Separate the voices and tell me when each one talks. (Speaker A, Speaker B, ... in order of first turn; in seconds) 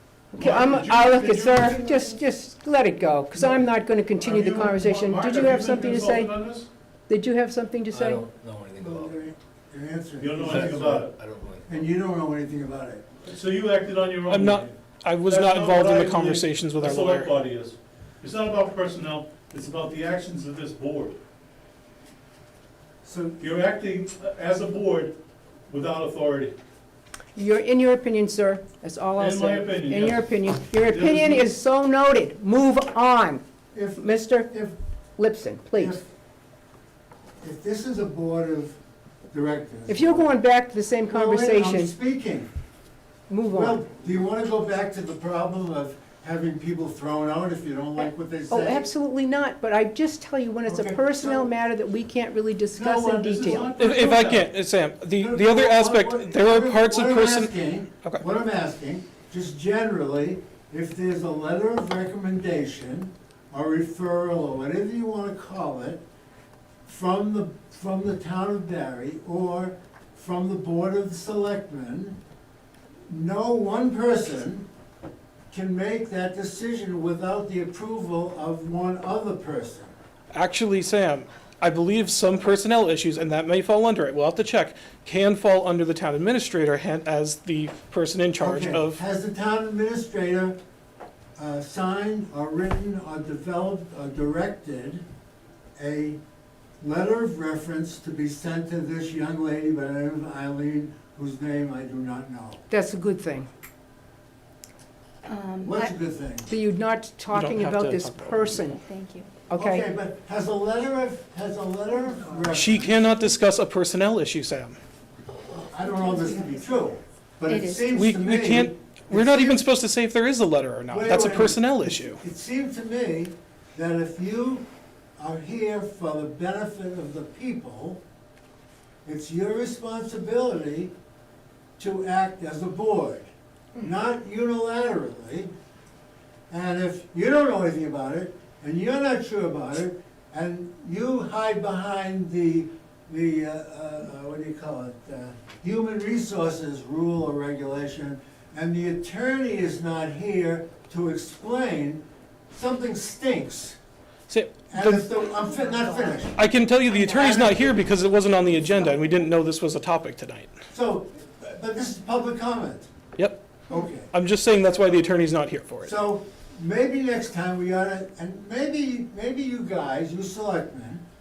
Speaker A: 0.3-6.3, 7.1-8.2, 27.4-33.4, 34.0-34.5, 35.2-36.0, 39.9-41.9, 43.3-43.8, 48.0-54.0, 102.7-103.5, 106.5-108.8, 109.5-109.9
Speaker B: 0.3-2.2, 3.4-3.6, 4.2-6.7, 10.2-11.2, 13.2-21.2, 23.4-25.2, 25.7-26.6, 29.2-31.5, 53.2-54.5
Speaker C: 7.9-9.2, 10.4-11.9
Speaker D: 8.8-11.1, 11.7-13.0, 23.0-23.4, 33.7-34.7, 35.7-36.0, 37.4-38.8, 39.3-40.4, 41.1-42.5, 43.5-48.9, 50.6-51.5, 52.7-53.7, 55.2-66.0, 66.9-72.2, 73.1-74.7, 75.5-79.9, 88.4-90.6, 91.4-95.0, 95.8-96.2, 96.8-102.6, 105.6-106.5, 109.5-113.0, 115.5-119.7, 120.9-124.7, 125.2-128.0, 129.0-130.9, 131.8-135.5, 136.5-153.8, 154.7-156.4, 157.0-157.7, 160.7-162.9, 163.7-164.1, 165.8-171.0
Speaker E: 14.3-17.3, 53.8-57.5, 80.3-89.0, 107.3-108.7, 112.5-114.8, 117.9-122.2, 154.3-155.2, 156.3-160.5, 163.2-165.9
Speaker F: 105.3-105.9, 108.8-109.3, 115.8-116.8, 117.5-118.0, 155.4-156.3